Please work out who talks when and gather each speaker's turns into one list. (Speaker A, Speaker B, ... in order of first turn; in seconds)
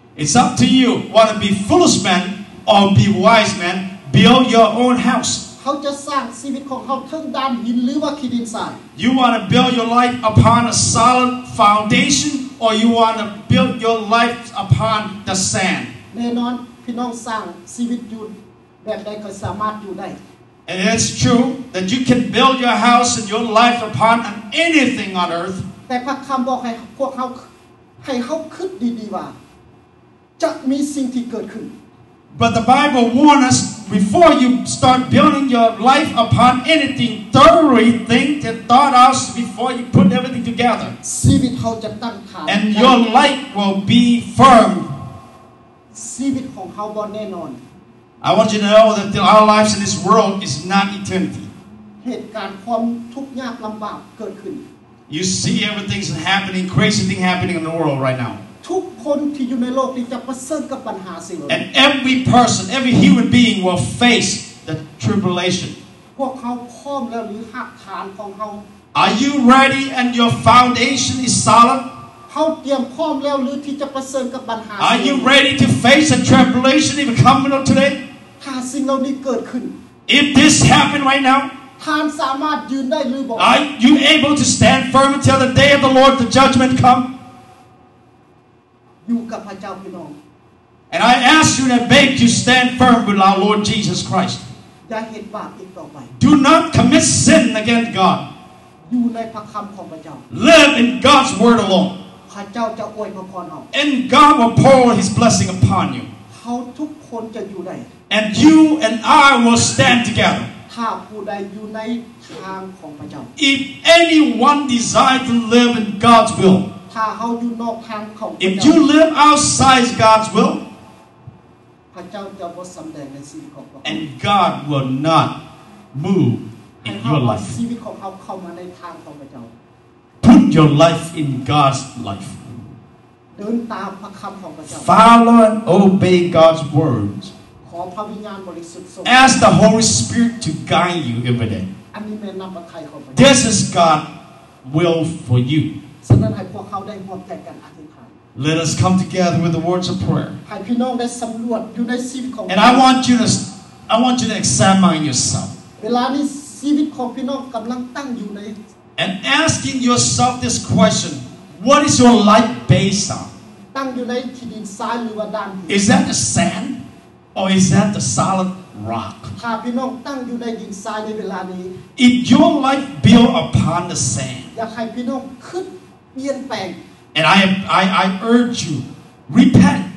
Speaker A: 0.1-5.4, 8.9-15.9, 20.7-25.6, 32.3-41.0, 42.5-44.9, 48.2-51.5, 55.1-58.4, 61.5-65.8, 68.9-71.8, 74.8-78.0, 80.1-81.5, 83.4-87.1, 90.9-94.4, 96.2-98.2, 100.3-102.0, 103.7-106.1, 108.1-110.5, 113.4-116.7, 118.4-120.6, 123.8-125.3, 125.9-127.5, 130.2-132.4, 134.7-137.3, 139.1-141.7, 143.1-144.1, 144.6-145.7, 148.3-150.4, 152.5-155.6, 159.0-163.3, 165.7-166.8, 167.3-169.3, 171.9-174.5, 177.1-179.9
Speaker B: 5.6-8.8, 16.1-20.2, 25.9-29.4, 30.4-31.7, 41.0-43.0, 45.9-47.6, 52.0-54.6, 58.6-61.6, 66.1-68.6, 72.3-75.3, 78.4-79.7, 81.8-83.5, 89.0-90.2, 94.9-96.1, 98.9-100.2, 102.3-103.7, 106.3-107.9, 110.7-113.3, 116.9-118.8, 121.9-124.0, 126.8-129.5, 133.3-134.9, 137.6-139.5, 141.9-143.2, 146.0-148.1, 150.4-152.9, 155.8-158.6, 163.7-165.8, 169.4-171.7, 174.5-176.8